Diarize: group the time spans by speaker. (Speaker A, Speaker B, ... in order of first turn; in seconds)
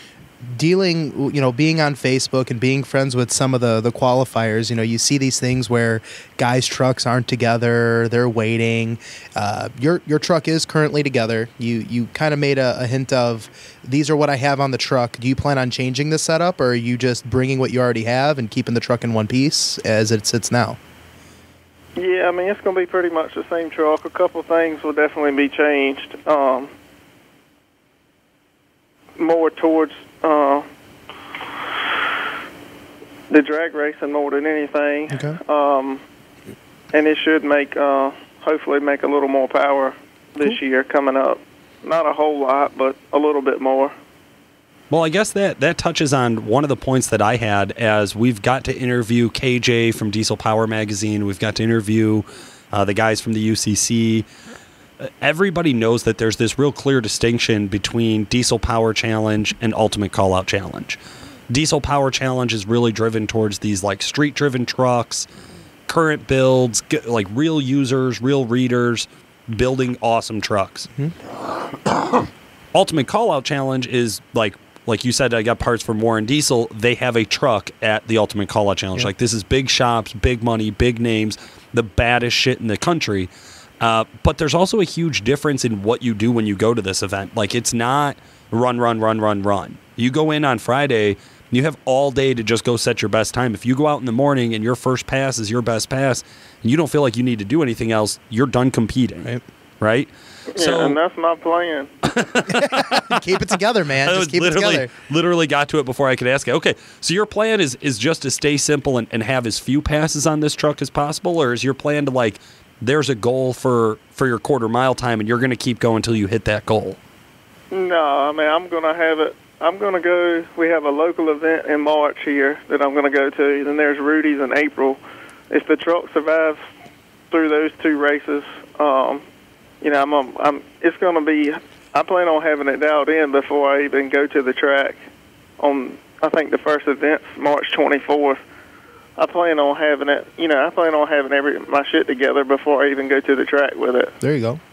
Speaker A: 0.4-20.8, 35.1-35.4, 102.5-104.9, 144.2-144.6
Speaker B: 22.0-26.7, 29.2-30.6, 33.3-36.0, 36.9-43.9, 100.5-101.9, 117.7-125.0, 125.5-126.6, 127.3-129.2, 129.8-135.0, 135.6-138.4, 139.2-144.2
Speaker C: 44.9-54.3, 55.0-61.0, 61.5-65.3, 65.9-70.9, 72.7-83.3, 83.8-101.0, 102.0-103.3, 104.0-117.0